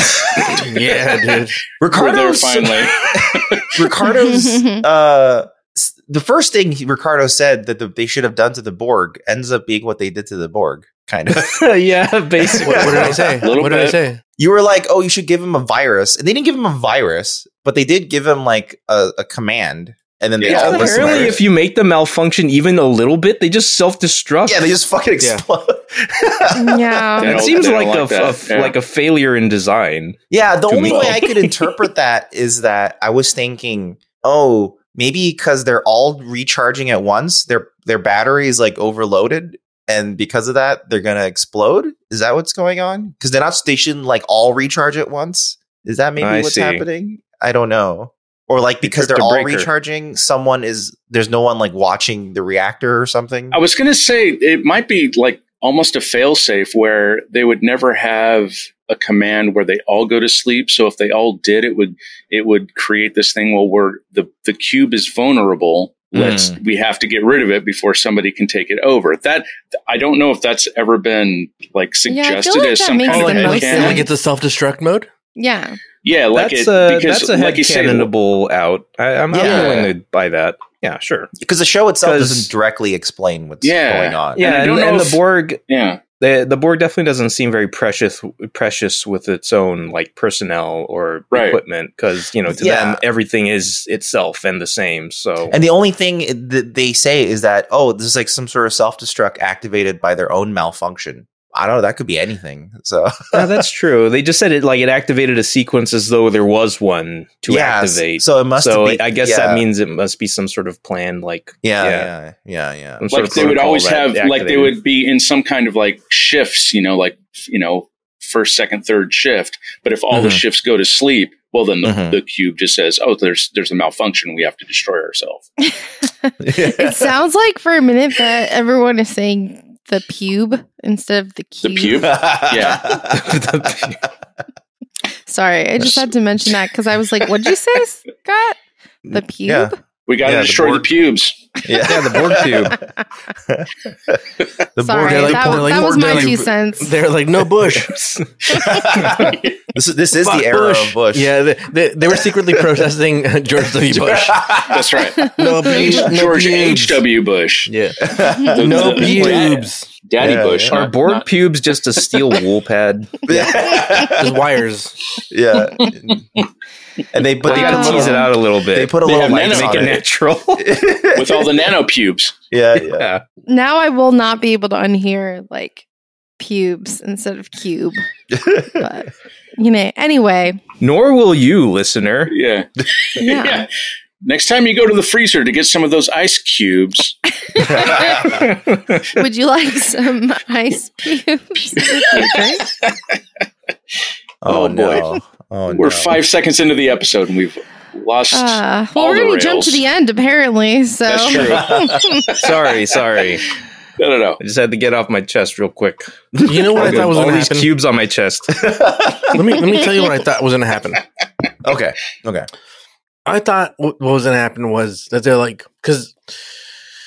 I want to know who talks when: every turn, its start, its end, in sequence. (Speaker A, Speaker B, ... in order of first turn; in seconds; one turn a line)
Speaker A: 0.1-0.6
Speaker B: 0.5-1.6
Speaker A: 1.8-11.7
Speaker C: 1.9-3.8
Speaker D: 4.1-4.8
Speaker E: 11.3-13.2
Speaker A: 12.3-13.4
Speaker B: 12.6-14.2
Speaker C: 13.4-14.0
Speaker A: 14.4-21.4
Speaker C: 20.4-21.3
Speaker E: 20.4-24.7
Speaker A: 24.4-27.2
Speaker D: 26.5-27.4
Speaker C: 27.2-28.7
Speaker E: 27.2-30.2
Speaker A: 30.3-53.6
Speaker E: 30.7-31.4
Speaker C: 30.8-31.2
Speaker E: 46.2-46.8
Speaker E: 48.8-49.7
Speaker C: 53.5-74.0
Speaker A: 66.1-66.6
Speaker D: 72.1-74.0
Speaker B: 73.1-75.1
Speaker A: 73.8-74.0
Speaker D: 75.3-75.8
Speaker C: 76.0-78.1
Speaker E: 76.3-81.3
Speaker A: 79.3-79.9
Speaker C: 79.4-79.9
Speaker A: 81.4-84.4
Speaker E: 82.0-82.5
Speaker C: 83.6-86.0
Speaker E: 84.3-85.6
Speaker E: 86.2-95.6
Speaker C: 91.3-91.6
Speaker A: 92.5-93.0
Speaker A: 95.5-103.6
Speaker E: 103.3-112.1
Speaker A: 107.5-109.6
Speaker A: 111.6-114.1
Speaker E: 113.0-114.8
Speaker C: 113.1-125.5
Speaker A: 120.1-120.4
Speaker A: 121.8-122.2
Speaker D: 125.6-132.4
Speaker A: 126.4-127.1
Speaker C: 131.6-132.8
Speaker A: 131.9-133.8
Speaker E: 132.8-134.0
Speaker D: 135.3-139.8
Speaker A: 139.1-139.7
Speaker C: 140.1-141.4
Speaker A: 140.2-140.9
Speaker A: 141.6-142.8
Speaker E: 141.8-142.8
Speaker A: 143.4-144.2
Speaker A: 144.8-146.5
Speaker D: 144.8-147.0
Speaker B: 144.9-148.2
Speaker A: 148.5-151.4
Speaker D: 148.5-148.8
Speaker B: 150.2-154.5
Speaker A: 152.4-152.8
Speaker A: 153.8-155.1
Speaker C: 154.7-157.7
Speaker D: 155.2-155.7
Speaker B: 155.2-157.0
Speaker A: 155.7-156.1
Speaker B: 157.7-159.9
Speaker A: 158.0-159.2
Speaker C: 158.5-161.3
Speaker A: 160.2-160.8
Speaker E: 160.7-163.7
Speaker A: 163.3-164.4
Speaker B: 164.0-164.9
Speaker A: 165.3-166.3
Speaker C: 165.8-166.4
Speaker A: 167.1-170.0
Speaker E: 167.4-170.7
Speaker C: 167.5-168.3
Speaker D: 167.5-168.2
Speaker C: 169.0-170.0
Speaker A: 170.6-171.7
Speaker C: 171.1-172.3
Speaker A: 172.5-173.1
Speaker E: 172.8-173.2
Speaker D: 173.4-175.8
Speaker D: 176.4-178.0
Speaker A: 178.3-178.8
Speaker D: 178.6-180.6
Speaker E: 180.8-182.3
Speaker C: 182.3-183.7
Speaker D: 183.2-183.7
Speaker C: 184.2-187.2
Speaker D: 187.4-188.5
Speaker A: 187.7-188.4
Speaker E: 188.4-188.9
Speaker D: 189.1-192.7
Speaker C: 192.1-193.2
Speaker A: 194.4-196.2
Speaker C: 194.4-195.1
Speaker C: 195.7-199.8
Speaker D: 198.3-202.4
Speaker C: 201.1-202.6
Speaker A: 201.5-202.1
Speaker E: 202.3-203.4
Speaker C: 204.0-204.4
Speaker E: 204.4-208.7
Speaker A: 206.4-207.1
Speaker B: 206.4-207.7
Speaker A: 208.5-209.4
Speaker B: 209.3-211.0
Speaker A: 211.6-212.5
Speaker B: 213.2-216.1